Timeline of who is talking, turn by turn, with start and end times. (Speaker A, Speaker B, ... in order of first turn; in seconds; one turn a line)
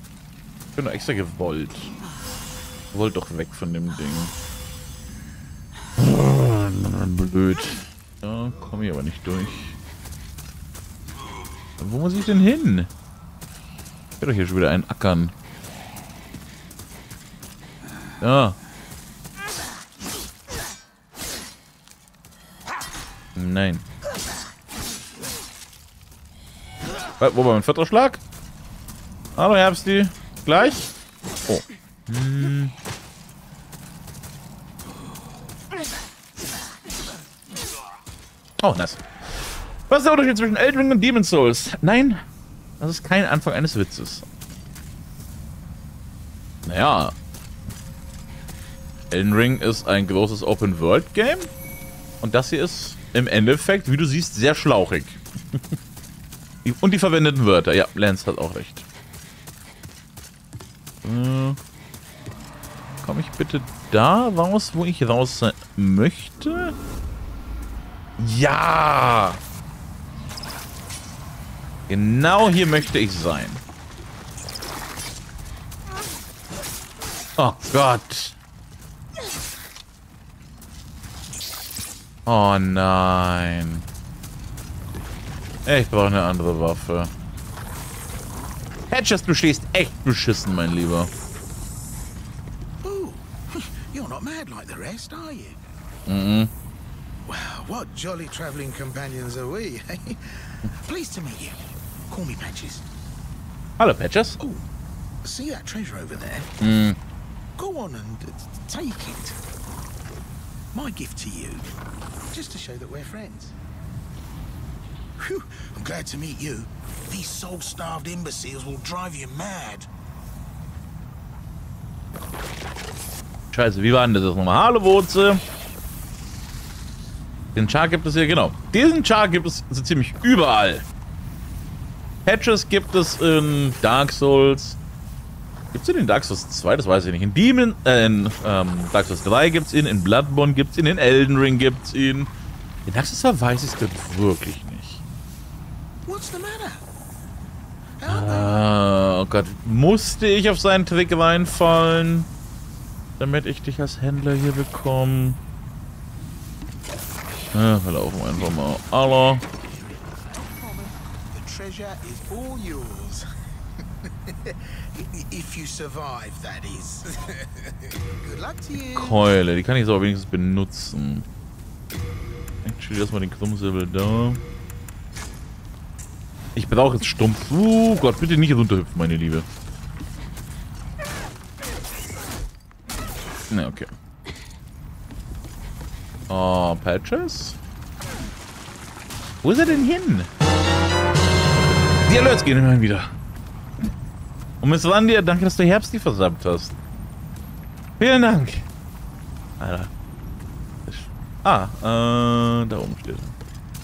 Speaker A: 0.8-1.9
Speaker A: 2.9-4.3
Speaker A: 6.0-9.8
Speaker A: 11.8-12.9
Speaker A: 14.2-15.3
Speaker A: 18.2-18.6
Speaker A: 23.4-23.9
Speaker A: 27.2-28.2
Speaker A: 29.4-30.9
Speaker A: 31.5-32.8
Speaker A: 38.6-42.2
Speaker A: 42.8-44.3
Speaker A: 46.7-47.2
Speaker A: 49.1-51.5
Speaker A: 52.2-55.6
Speaker A: 56.6-58.9
Speaker A: 61.0-61.6
Speaker A: 63.0-66.8
Speaker A: 68.2-69.4
Speaker A: 71.9-73.6
Speaker A: 77.4-78.4
Speaker A: 82.3-83.9
Speaker A: 85.7-87.1
Speaker A: 88.9-91.1
Speaker B: 92.8-95.6
Speaker A: 96.1-96.5
Speaker B: 97.3-102.8
Speaker A: 103.8-104.4
Speaker B: 105.2-106.5
Speaker A: 106.6-107.0
Speaker B: 107.6-109.4
Speaker B: 110.7-111.7
Speaker B: 112.3-113.5
Speaker B: 115.2-119.9
Speaker A: 123.5-125.4
Speaker A: 127.5-130.9
Speaker A: 132.3-134.8
Speaker A: 135.7-142.3
Speaker A: 142.9-145.0
Speaker B: 146.1-146.8
Speaker B: 148.0-148.6
Speaker A: 148.1-152.3
Speaker A: 153.2-155.4
Speaker A: 157.5-159.4
Speaker B: 159.9-163.3
Speaker B: 164.0-169.2
Speaker A: 168.9-171.3
Speaker A: 172.6-174.4
Speaker A: 176.6-179.5
Speaker A: 183.5-183.9
Speaker A: 186.3-187.6
Speaker A: 189.4-190.3
Speaker A: 192.0-193.1
Speaker A: 194.6-196.8
Speaker A: 198.0-198.7
Speaker A: 199.6-199.9
Speaker A: 200.9-203.4